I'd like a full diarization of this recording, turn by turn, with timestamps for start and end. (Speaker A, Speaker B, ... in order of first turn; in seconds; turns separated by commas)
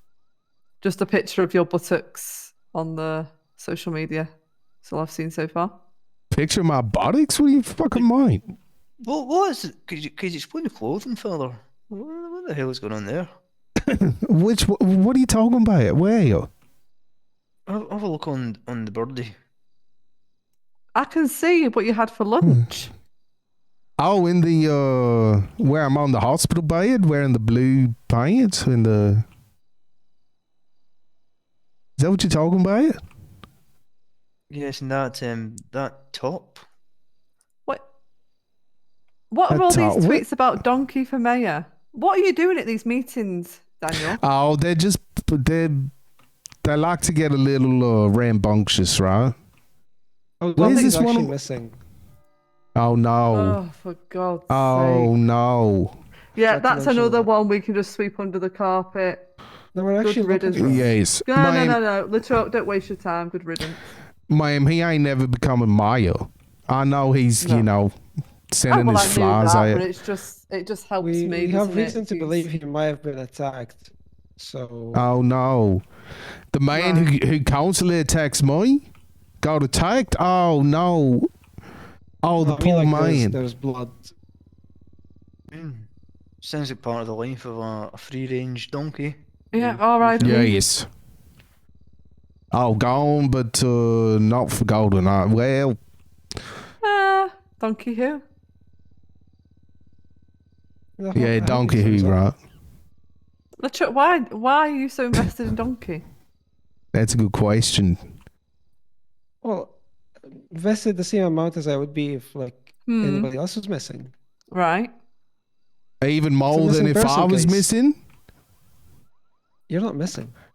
Speaker A: 0.8-4.3, Speaker A: 4.8-5.8, Speaker B: 6.3-8.4, Speaker C: 9.0-13.3, Speaker B: 14.1-16.5, Speaker C: 17.7-19.4, Speaker A: 20.9-22.9, Speaker B: 24.0-29.2, Speaker B: 32.0-33.0, Speaker C: 34.5-36.6, Speaker A: 39.3-44.2, Speaker B: 39.5-40.3, Speaker B: 44.1-45.9, Speaker B: 46.6-49.4, Speaker D: 50.4-51.8, Speaker B: 50.6-51.3, Speaker B: 52.8-53.6, Speaker A: 53.3-55.1, Speaker B: 54.5-55.9, Speaker A: 56.4-59.2, Speaker D: 56.5-57.3, Speaker D: 59.7-60.9, Speaker A: 60.0-63.8, Speaker B: 60.6-61.8, Speaker B: 64.3-67.9, Speaker A: 67.4-67.7, Speaker B: 68.5-69.9, Speaker A: 68.7-72.5, Speaker D: 71.0-75.1, Speaker B: 74.9-75.8, Speaker B: 76.5-78.8, Speaker A: 76.7-77.1, Speaker B: 79.4-81.3, Speaker B: 82.2-83.4, Speaker D: 82.4-84.1, Speaker C: 85.5-85.9, Speaker C: 86.4-90.5, Speaker A: 89.5-90.6, Speaker B: 90.2-90.9, Speaker B: 92.5-95.8, Speaker A: 96.8-98.2, Speaker D: 101.0-102.2, Speaker B: 101.2-102.4, Speaker A: 103.6-106.0, Speaker B: 106.9-108.0, Speaker D: 109.4-109.7, Speaker D: 110.3-114.1, Speaker A: 112.9-113.3, Speaker A: 114.5-114.9, Speaker B: 116.0-118.0, Speaker D: 116.5-117.7, Speaker D: 119.7-120.3